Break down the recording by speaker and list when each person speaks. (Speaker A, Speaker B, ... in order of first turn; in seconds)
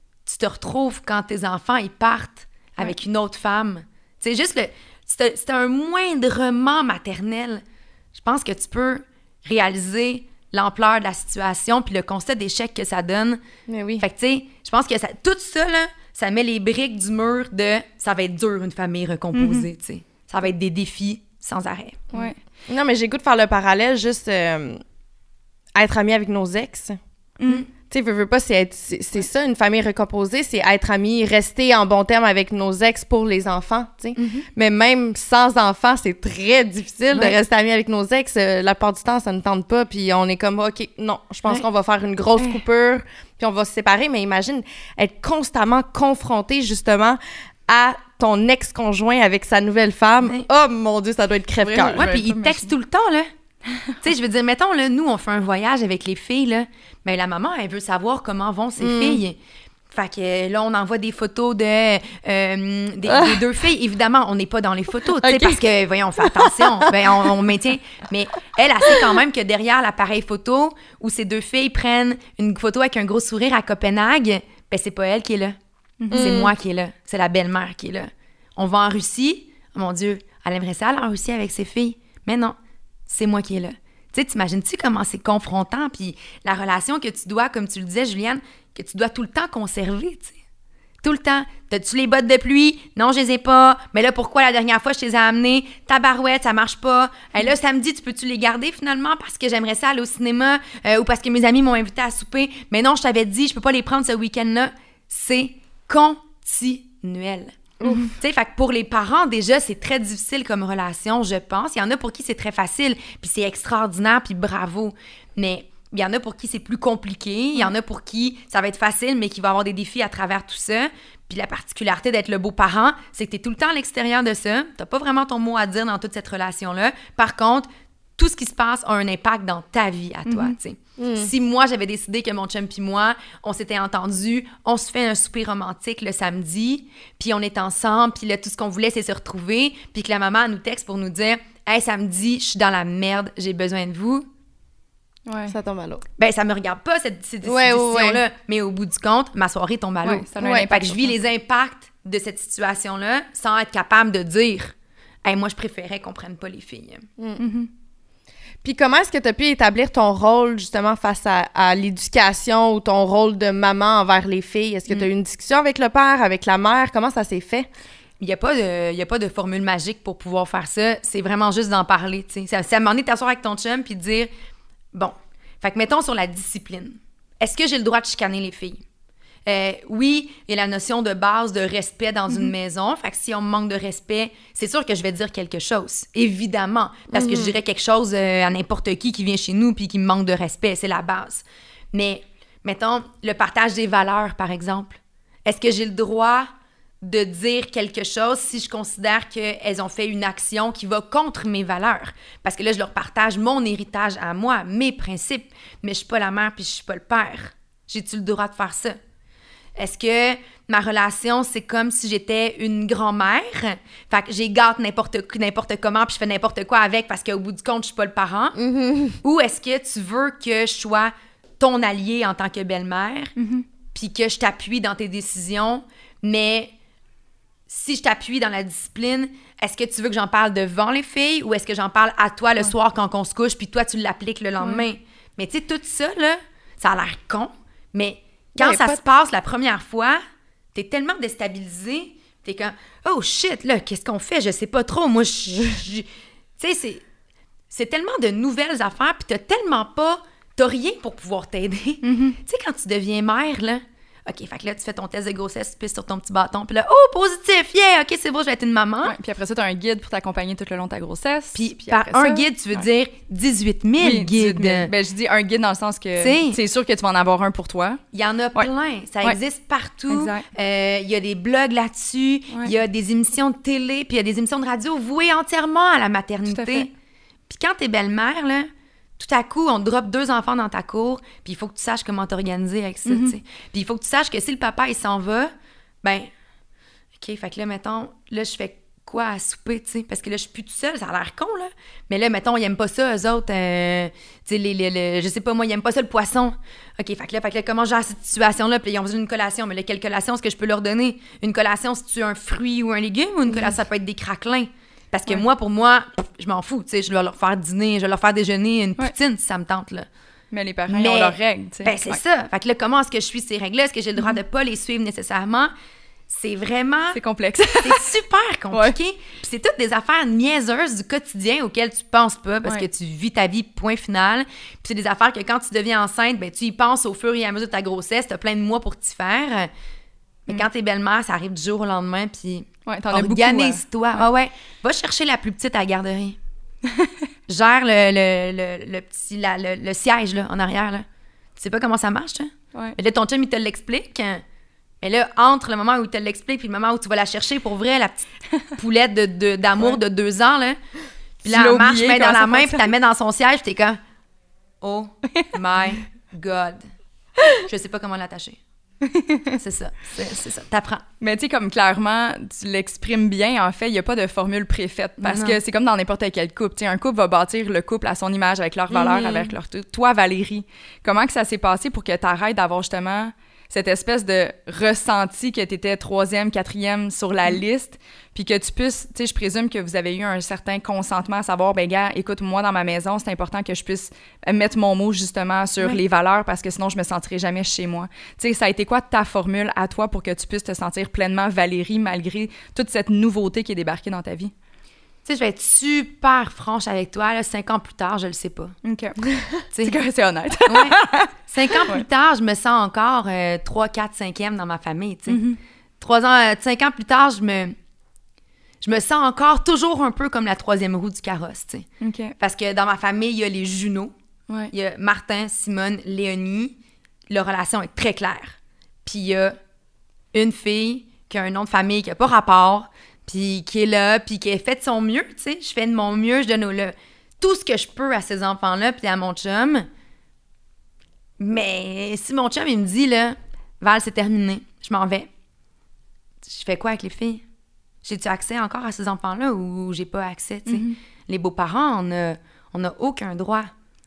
Speaker A: 0.2-7.6, 8.1-13.4, 14.0-22.0, 34.2-34.5, 51.9-53.3, 54.0-59.4, 59.9-75.5, 76.1-82.5, 83.1-90.3, 91.0-107.5, 108.2-144.3, 146.2-154.7, 155.2-157.1, 168.2-174.3, 174.9-178.8, 179.4-196.5, 197.0-208.9, 209.8-218.6, 219.2-223.3, 223.9-226.7, 227.7-240.2, 240.7-246.1, 246.6-247.0, 247.7-259.1, 261.5-264.9, 266.2-266.6, 268.1-276.9, 277.5-285.5, 286.0-286.3, 287.2-310.1, 310.9-315.7, 316.3-317.2, 317.8-329.7, 330.5-336.4, 337.5-341.0, 341.6-344.4, 345.0-350.8, 351.4-354.0, 354.8-356.8, 357.5-358.6, 359.5-361.0, 365.2-365.6, 368.9-369.5, 395.2-398.7, 399.7-400.0, 400.7-405.4, 406.0-407.7, 408.8-411.9, 412.4-414.1, 414.7-416.7, 417.3-419.6, 420.3-429.9, 431.4-435.3, 436.5-437.4, 438.0-443.7
Speaker B: 13.7-14.0, 22.1-24.8, 25.8-27.0, 27.9-52.1, 58.8-59.2, 63.0-63.4, 65.2-65.6, 66.2-66.9, 76.1-76.5, 107.8-108.1, 131.0-131.3, 145.5-146.0, 147.4-148.2, 150.4-150.7, 158.6-167.7, 187.1-187.6, 218.6-219.2
Speaker C: 19.3-19.6, 27.4-27.6, 51.6-52.7, 76.0-76.4, 107.8-108.1, 130.2-130.6, 145.2-145.5, 150.0-151.2, 157.4-157.7, 223.4-223.6, 238.6-238.9, 252.0-252.4, 259.0-262.9, 264.0-268.0, 270.1-270.4, 276.5-276.9, 283.1-283.3, 310.5-312.2, 317.1-318.1, 332.9-334.2, 351.4-352.9, 359.1-359.5, 361.2-394.5, 398.8-399.2, 399.8-402.0, 405.3-405.6, 412.0-412.3, 440.7-440.9